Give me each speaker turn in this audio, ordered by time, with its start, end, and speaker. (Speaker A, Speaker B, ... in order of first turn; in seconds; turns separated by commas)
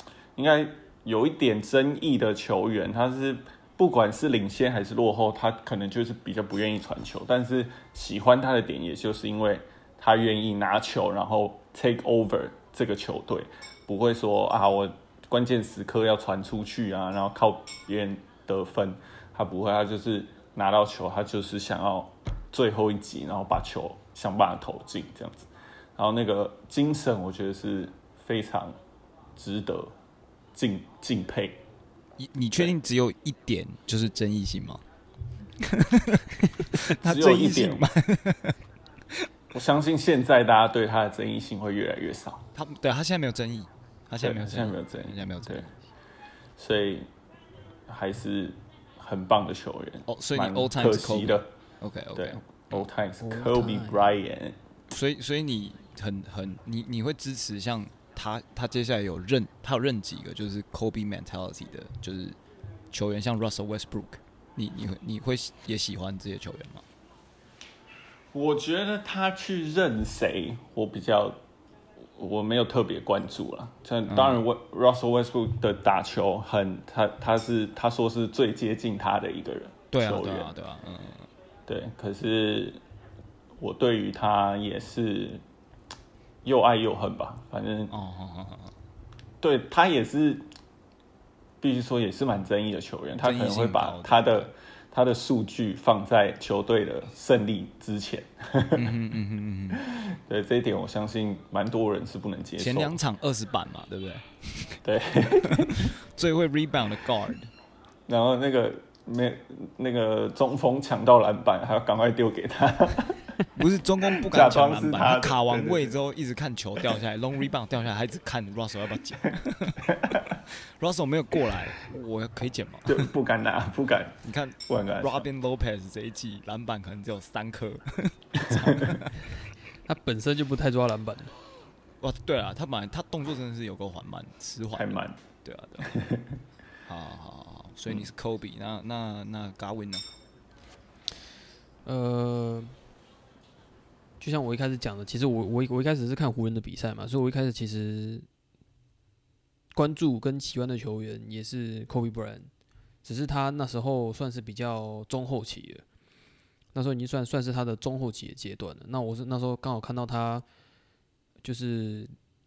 Speaker A: 0.4-28.8, Speaker A: 29.4-29.9, Speaker A: 30.6-31.6, Speaker B: 32.2-34.8, Speaker B: 35.6-38.6, Speaker A: 36.9-37.9, Speaker A: 39.5-42.5, Speaker B: 42.5-45.7, Speaker A: 44.2-45.7, Speaker A: 46.6-47.1, Speaker A: 47.9-51.5, Speaker B: 50.1-52.9, Speaker A: 52.1-54.6, Speaker C: 53.2-54.0, Speaker B: 54.9-62.4, Speaker B: 62.9-66.8, Speaker A: 68.3-71.4, Speaker A: 72.2-80.5, Speaker B: 74.1-74.4, Speaker B: 79.9-81.3, Speaker A: 81.7-82.8, Speaker A: 83.6-85.4, Speaker A: 86.4-87.9, Speaker B: 87.9-88.7, Speaker A: 89.4-90.5, Speaker A: 91.6-99.0, Speaker B: 93.2-94.5, Speaker B: 98.7-99.8, Speaker A: 99.7-103.0, Speaker B: 102.6-104.8, Speaker A: 104.8-105.9, Speaker B: 105.5-107.5, Speaker A: 108.1-113.3, Speaker B: 113.5-123.1, Speaker A: 114.2-115.9, Speaker A: 120.0-120.2, Speaker A: 122.9-125.2, Speaker B: 124.2-129.2, Speaker C: 129.8-131.3, Speaker B: 132.0-135.9, Speaker A: 134.7-135.2, Speaker A: 135.8-136.3, Speaker B: 136.9-140.1, Speaker C: 141.8-142.8, Speaker C: 144.2-148.3, Speaker C: 149.7-152.5, Speaker C: 153.0-155.9, Speaker C: 156.7-160.5, Speaker C: 161.4-162.2